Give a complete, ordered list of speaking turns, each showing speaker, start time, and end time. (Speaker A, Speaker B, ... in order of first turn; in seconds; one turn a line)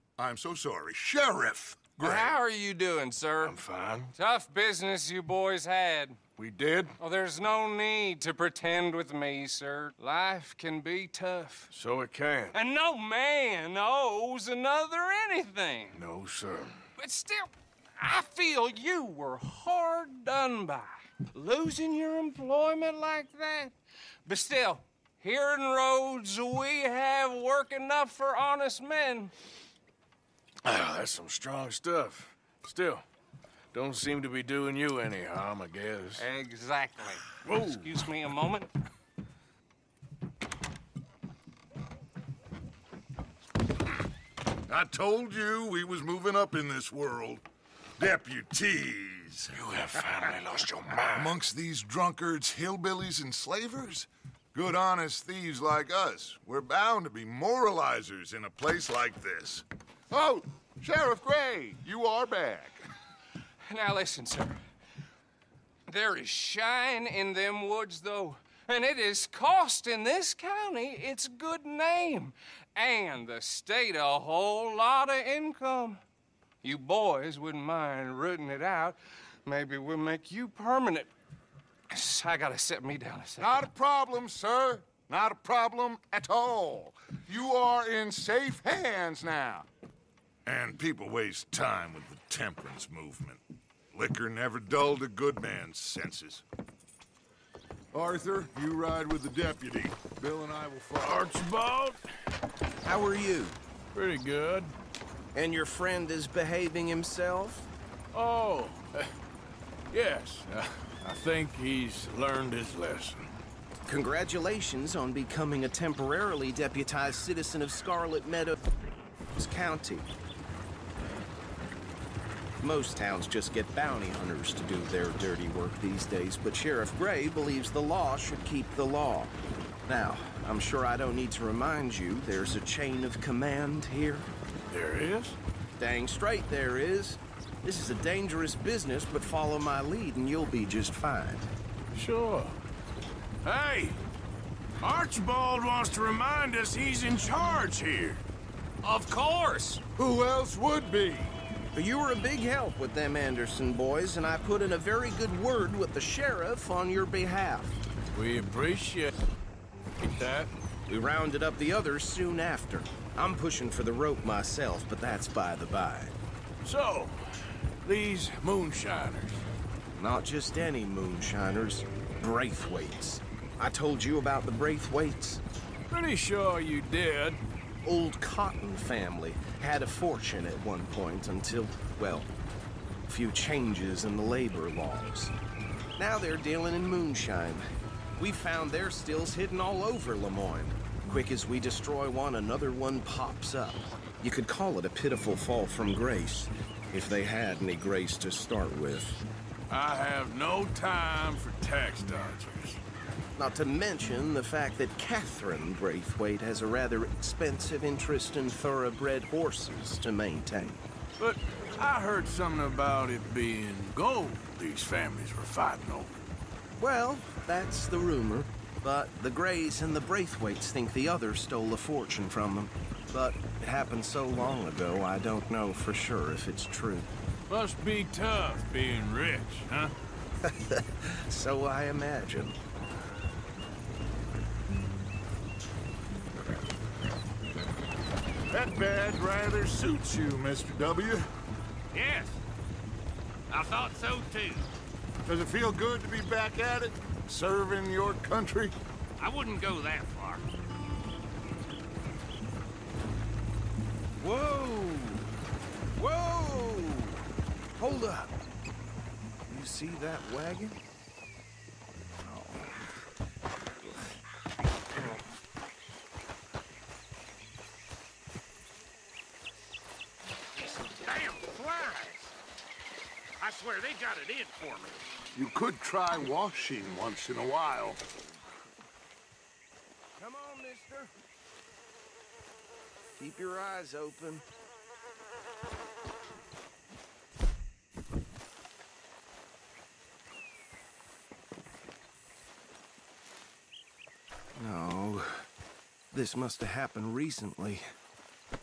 Speaker A: 0.2-2.4
Speaker B: 2.0-3.6
Speaker C: 3.4-4.1
Speaker B: 4.2-6.2
Speaker C: 6.4-7.0
Speaker B: 7.0-11.7
Speaker C: 11.7-12.6
Speaker B: 12.5-16.0
Speaker C: 15.9-16.8
Speaker B: 17.0-23.7
Speaker B: 24.3-29.3
Speaker C: 30.6-33.0
Speaker C: 33.7-36.3
Speaker B: 36.2-38.7
Speaker C: 37.4-37.9
Speaker A: 44.7-47.5
Speaker A: 48.0-49.7
Speaker C: 49.5-51.3
Speaker A: 51.1-62.9
Speaker B: 63.7-64.6
Speaker B: 65.9-76.0
Speaker B: 76.6-81.1
Speaker B: 81.9-83.6
Speaker A: 83.4-89.7
Speaker A: 90.5-96.4
Speaker A: 97.9-101.4
Speaker C: 101.0-102.0
Speaker D: 102.8-103.6
Speaker C: 103.9-104.7
Speaker D: 105.3-107.7
Speaker C: 108.1-109.1
Speaker C: 109.9-113.3
Speaker D: 113.9-118.6
Speaker D: 119.3-120.1
Speaker D: 122.6-129.4
Speaker D: 129.9-134.3
Speaker C: 134.7-135.4
Speaker D: 135.8-141.5
Speaker C: 141.9-142.6
Speaker C: 143.4-144.0
Speaker C: 144.8-148.2
Speaker E: 148.8-149.8
Speaker A: 149.9-151.4
Speaker D: 151.7-157.8
Speaker C: 158.1-159.1
Speaker C: 160.0-160.5
Speaker D: 160.9-166.2
Speaker C: 166.6-169.5
Speaker D: 170.0-175.4
Speaker C: 175.9-177.4
Speaker D: 177.8-182.3
Speaker D: 183.1-185.3
Speaker D: 186.0-199.2
Speaker C: 199.7-202.8
Speaker D: 203.4-210.8
Speaker C: 211.2-216.1
Speaker D: 216.8-227.1
Speaker C: 227.5-229.9
Speaker D: 230.4-232.6
Speaker A: 238.5-241.3
Speaker E: 241.9-242.4
Speaker E: 243.5-244.7
Speaker A: 245.2-248.8
Speaker E: 249.2-250.4
Speaker D: 254.2-255.3
Speaker D: 255.9-257.2
Speaker D: 257.8-258.3
Speaker D: 259.5-260.8
Speaker D: 262.2-262.7
Speaker E: 270.6-272.4
Speaker E: 273.4-275.0
Speaker A: 275.3-278.0
Speaker D: 280.2-281.1
Speaker D: 283.2-284.4
Speaker D: 294.6-295.5
Speaker D: 296.1-297.9